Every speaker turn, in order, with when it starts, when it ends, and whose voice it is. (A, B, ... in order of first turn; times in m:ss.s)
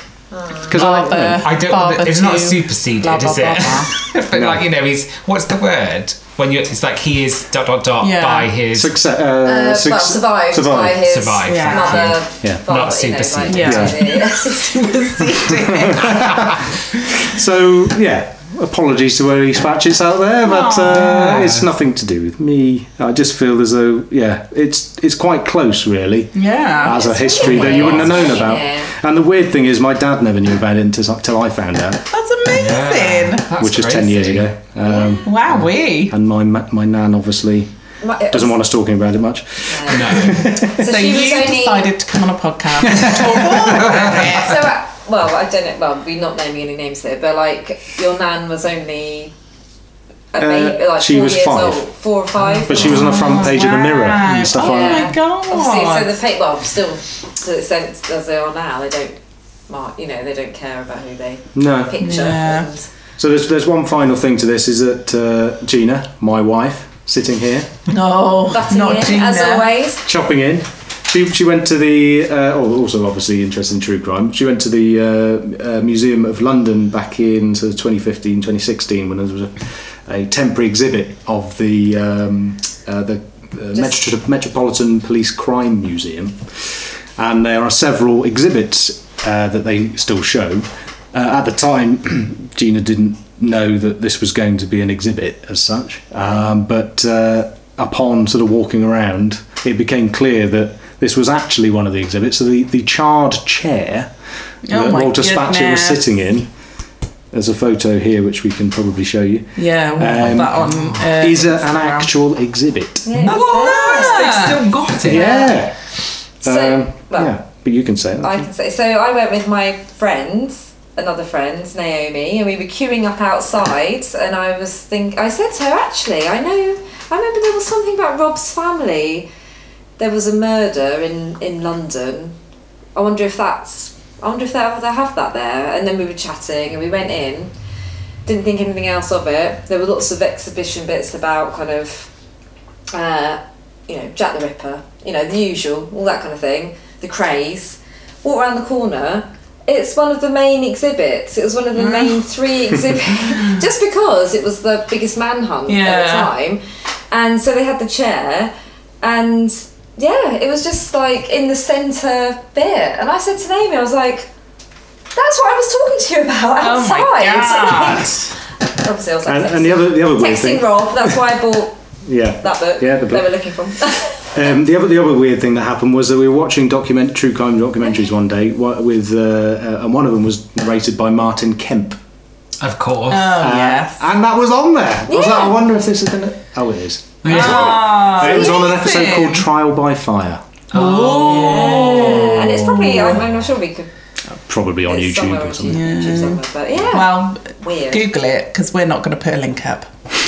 0:00.3-0:00.8 A
0:00.6-0:01.4 B
0:00.7-0:04.0 C
0:01.0-0:08.9 D
0:04.3-0:04.6 B
0:08.0-0:08.5 C
0:08.7-0:11.1 B
0:09.4-0:15.5 A
0:11.0-0:14.0 D
0:11.4-0:12.1 C
0:13.5-0:16.5 C
0:13.6-0:14.1 B
0:15.4-0:32.1 B
0:16.2-0:16.6 D
0:20.4-0:21.4 C
0:20.9-0:21.7 D
0:26.3-0:27.0 C
0:26.8-0:28.9 A
0:27.4-0:28.3 D
0:32.1-0:33.5 C
0:32.5-0:34.5 D
0:33.6-0:37.7 B
0:34.8-0:35.2 A
0:35.2-0:36.1 C
0:38.0-0:38.6 A
0:38.3-0:40.9 B
0:39.7-0:41.9 A
0:39.9-0:40.5 D
0:40.8-0:44.6 C
0:42.8-0:43.4 B
0:43.2-0:49.3 A
0:43.6-0:44.4 D
0:50.3-0:53.4 A
0:50.4-0:51.9 B
0:52.5-0:56.1 C
0:52.7-0:55.1 B
0:54.5-1:02.9 A
1:01.5-1:02.0 B
1:02.0-1:02.7 C
1:03.2-1:07.8 B
1:07.9-1:09.7 C
1:08.4-1:10.0 A
1:10.0-1:44.1 B
1:44.6-1:46.1 C
1:44.7-1:46.5 B
1:47.3-1:53.2 B
1:49.6-1:52.1 C
1:50.0-1:51.1 D
1:53.0-1:54.4 A
1:53.2-1:55.6 D
1:53.2-1:54.7 C
1:54.9-1:55.8 B
1:55.1-1:55.6 A
1:56.4-1:58.5 B
1:56.4-1:57.3 A
1:58.2-2:09.3 A
2:10.0-2:12.4 A
2:12.9-2:17.5 A
2:18.2-2:22.1 A
2:22.9-2:44.3 A
2:31.8-2:32.2 C
2:35.7-2:36.3 C
2:45.1-2:48.2 A
2:46.6-2:48.3 C
2:48.7-2:51.8 A
2:49.2-2:51.4 B
2:52.0-2:53.3 B
2:52.4-2:54.6 A
2:54.3-3:02.0 B
3:02.6-3:03.4 D
3:03.1-3:04.0 C
3:03.4-3:10.4 B
3:05.1-3:05.6 A
3:07.2-3:08.1 D
3:07.3-3:09.5 C
3:08.2-3:08.6 A
3:10.7-3:13.2 D
3:10.7-3:12.2 C
3:10.9-3:13.9 A
3:14.5-3:15.9 B
3:14.9-3:18.0 A
3:15.7-3:19.9 C